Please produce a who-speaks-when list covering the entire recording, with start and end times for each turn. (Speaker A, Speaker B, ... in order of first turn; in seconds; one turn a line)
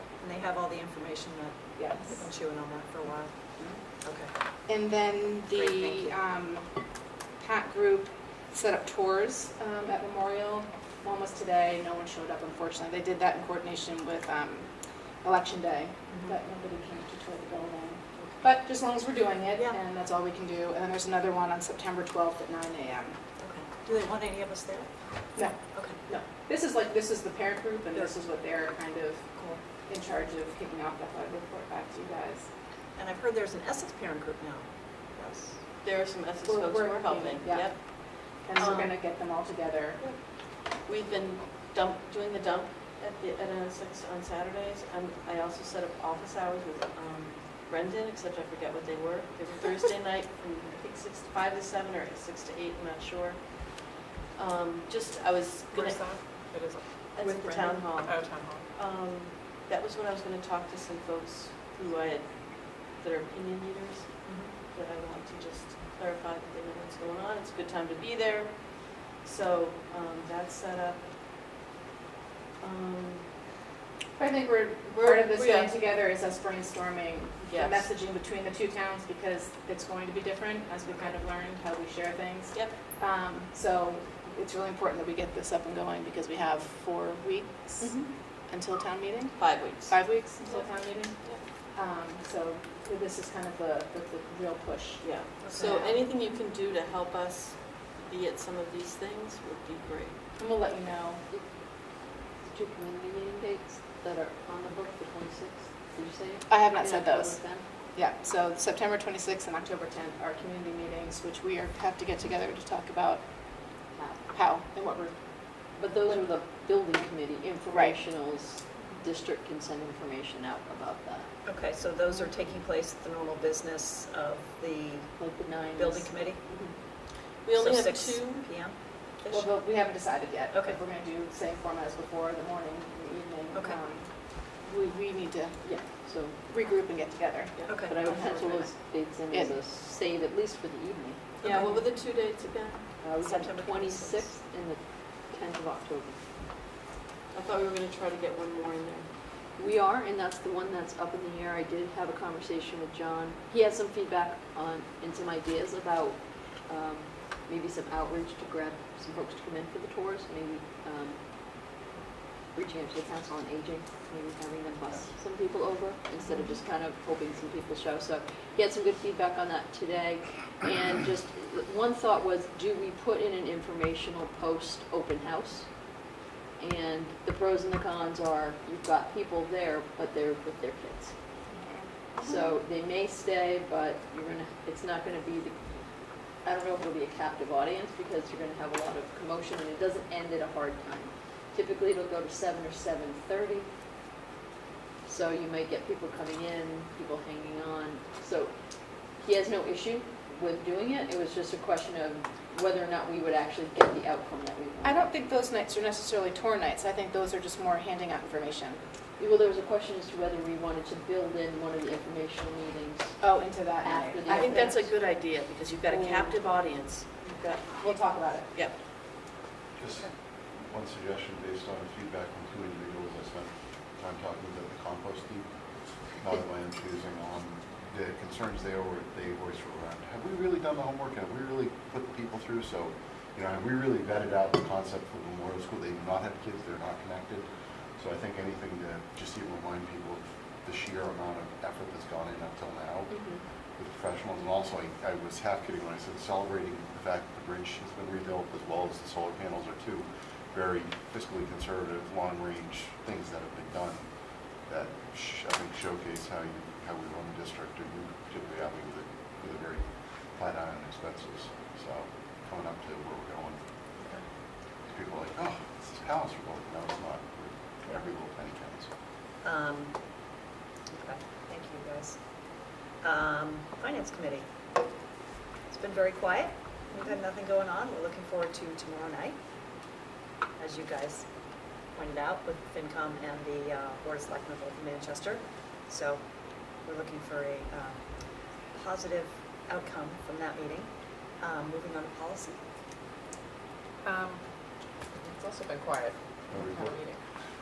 Speaker A: 0.2-3.3
Speaker B: 1.8-2.2
Speaker A: 4.0-4.3
Speaker B: 4.7-6.7
Speaker A: 5.5-6.0
Speaker B: 7.4-23.2
Speaker A: 23.4-25.0
Speaker B: 25.3-29.3
Speaker A: 25.7-26.0
Speaker A: 29.3-29.6
Speaker B: 29.8-32.5
Speaker A: 33.0-35.6
Speaker C: 35.8-37.8
Speaker B: 36.5-40.0
Speaker C: 38.6-39.0
Speaker C: 40.0-56.0
Speaker D: 55.7-58.7
Speaker C: 57.1-58.1
Speaker C: 58.7-71.0
Speaker A: 64.2-64.5
Speaker C: 72.6-73.3
Speaker B: 74.2-91.2
Speaker C: 74.9-75.8
Speaker C: 77.4-77.9
Speaker E: 87.8-88.1
Speaker C: 89.4-91.4
Speaker B: 91.7-96.1
Speaker C: 95.0-100.2
Speaker A: 95.4-95.8
Speaker B: 100.4-101.2
Speaker E: 102.4-107.7
Speaker B: 106.5-113.3
Speaker B: 114.3-115.2
Speaker E: 115.8-121.3
Speaker B: 117.7-118.0
Speaker A: 121.4-125.1
Speaker E: 125.2-126.8
Speaker A: 125.8-126.5
Speaker C: 127.4-128.5
Speaker A: 127.5-129.5
Speaker B: 129.3-135.7
Speaker A: 130.5-130.8
Speaker A: 133.5-133.8
Speaker E: 135.6-136.4
Speaker B: 136.4-138.7
Speaker A: 137.7-138.0
Speaker E: 137.8-141.4
Speaker B: 139.3-139.6
Speaker A: 141.4-141.8
Speaker C: 141.4-142.9
Speaker E: 143.0-146.2
Speaker A: 143.3-144.2
Speaker C: 147.3-149.1
Speaker E: 149.6-161.8
Speaker E: 162.5-175.7
Speaker E: 176.6-181.1
Speaker B: 181.5-181.9
Speaker E: 182.2-185.6
Speaker E: 186.4-193.7
Speaker E: 195.1-198.5
Speaker E: 199.2-205.1
Speaker B: 204.8-208.8
Speaker E: 209.2-213.2
Speaker B: 213.2-214.9
Speaker E: 213.8-214.9
Speaker C: 214.3-217.8
Speaker B: 215.9-216.3
Speaker B: 217.7-218.5
Speaker F: 219.8-225.5
Speaker F: 226.2-243.2
Speaker E: 243.1-243.4
Speaker F: 243.8-254.0
Speaker F: 254.7-263.6
Speaker F: 264.9-268.9
Speaker A: 269.4-270.0
Speaker A: 270.9-272.2
Speaker A: 273.0-274.5
Speaker A: 275.7-279.4
Speaker A: 280.6-281.2
Speaker A: 281.9-286.2
Speaker A: 286.8-292.6
Speaker D: 294.0-294.4
Speaker D: 295.1-297.2
Speaker F: 296.5-297.0